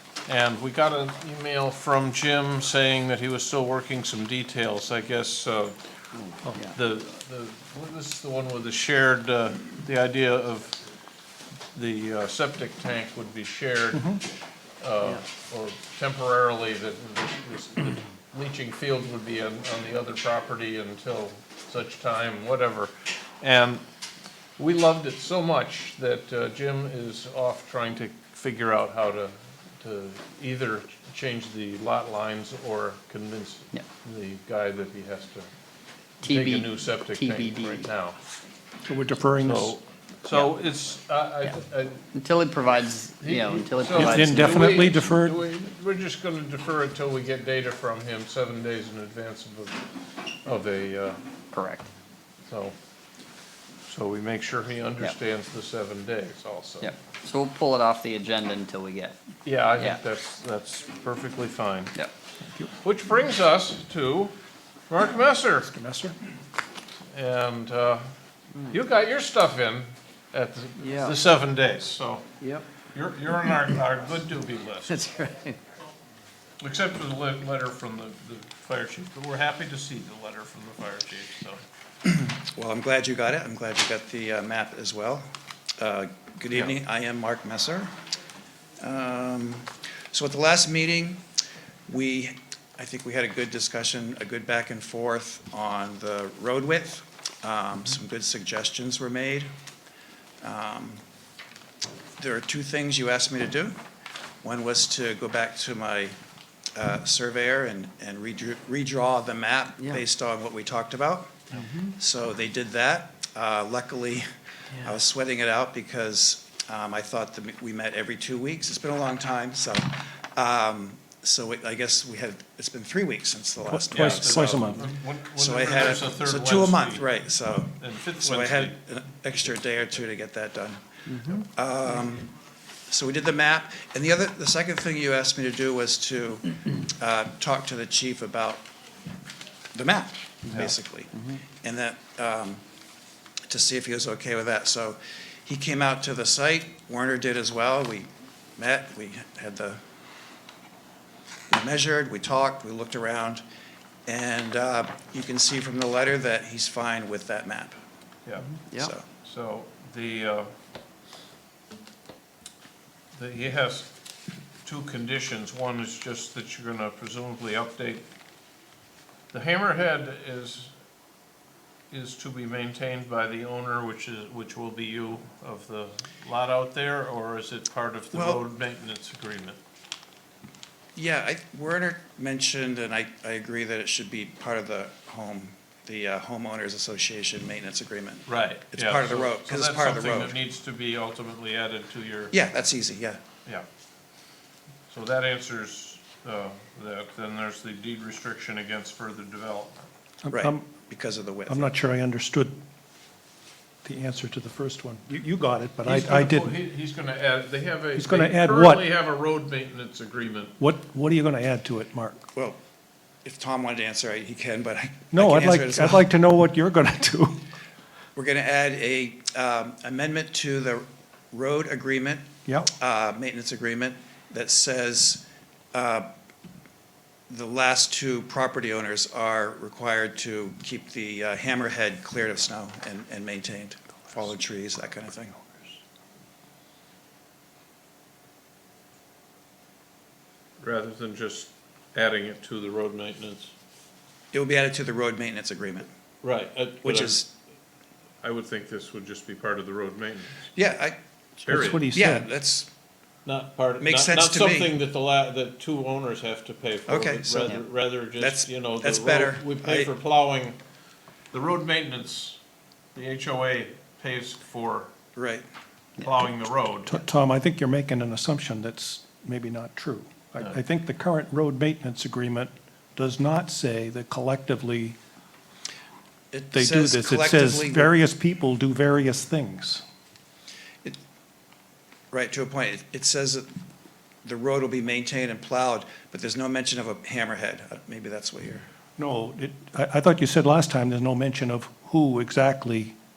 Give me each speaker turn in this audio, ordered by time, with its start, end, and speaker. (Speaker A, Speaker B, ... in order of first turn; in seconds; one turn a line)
Speaker A: 0.2-5.8
Speaker B: 6.1-6.8
Speaker A: 6.7-10.8
Speaker A: 11.7-14.2
Speaker C: 13.9-14.2
Speaker A: 14.8-23.8
Speaker A: 24.6-35.5
Speaker B: 36.2-37.9
Speaker A: 36.2-38.2
Speaker C: 38.8-39.7
Speaker A: 39.4-42.0
Speaker B: 42.1-44.9
Speaker A: 43.2-49.8
Speaker C: 44.0-45.4
Speaker A: 50.4-51.2
Speaker B: 51.5-51.9
Speaker A: 52.5-52.7
Speaker A: 53.9-56.9
Speaker B: 56.8-59.2
Speaker A: 59.4-61.9
Speaker A: 62.8-64.3
Speaker A: 64.9-65.7
Speaker C: 65.6-66.1
Speaker A: 67.1-68.1
Speaker A: 68.7-72.3
Speaker B: 70.8-71.2
Speaker B: 72.4-72.6
Speaker A: 72.9-75.0
Speaker B: 74.9-75.6
Speaker A: 76.6-81.6
Speaker D: 82.0-85.3
Speaker D: 85.8-87.9
Speaker D: 88.8-91.2
Speaker D: 91.9-99.5
Speaker D: 100.4-101.0
Speaker D: 102.2-103.8
Speaker D: 104.4-106.2
Speaker D: 106.7-111.4
Speaker B: 111.5-111.9
Speaker D: 112.0-114.2
Speaker D: 114.8-124.8
Speaker C: 123.7-124.8
Speaker A: 123.9-127.1
Speaker D: 125.4-132.3
Speaker A: 127.8-128.8
Speaker B: 131.1-131.4
Speaker D: 132.9-138.7
Speaker D: 139.7-142.6
Speaker B: 141.1-141.4
Speaker D: 143.5-149.8
Speaker D: 151.5-153.4
Speaker D: 154.1-157.8
Speaker A: 158.2-158.6
Speaker D: 158.7-159.0
Speaker A: 159.2-160.5
Speaker A: 163.1-163.9
Speaker A: 164.6-168.1
Speaker A: 169.3-170.7
Speaker A: 171.9-179.6
Speaker D: 178.1-178.4
Speaker D: 180.9-190.3
Speaker A: 188.3-192.3
Speaker D: 192.3-193.2
Speaker A: 194.9-199.9
Speaker C: 200.2-200.7
Speaker D: 200.3-201.6
Speaker C: 201.5-202.6
Speaker C: 203.8-206.6
Speaker A: 205.8-210.5
Speaker C: 207.9-208.8
Speaker C: 210.6-212.3
Speaker D: 213.2-216.0
Speaker C: 215.1-217.4
Speaker D: 218.1-226.1
Speaker D: 227.3-235.6
Speaker A: 240.6-243.5
Speaker D: 244.3-245.9
Speaker A: 246.2-247.2
Speaker D: 246.8-247.3
Speaker A: 248.2-250.4
Speaker D: 250.5-251.0
Speaker C: 251.4-252.3
Speaker A: 251.4-251.8
Speaker D: 251.9-252.7
Speaker A: 253.2-260.6
Speaker D: 253.8-254.7
Speaker D: 256.9-257.6
Speaker D: 258.2-259.9
Speaker A: 261.3-262.4
Speaker A: 262.9-264.9
Speaker D: 265.1-265.4
Speaker A: 266.0-267.1
Speaker C: 266.9-275.0
Speaker D: 276.3-277.9
Speaker C: 276.5-279.8
Speaker D: 282.1-283.5
Speaker D: 284.2-288.6
Speaker C: 289.0-292.9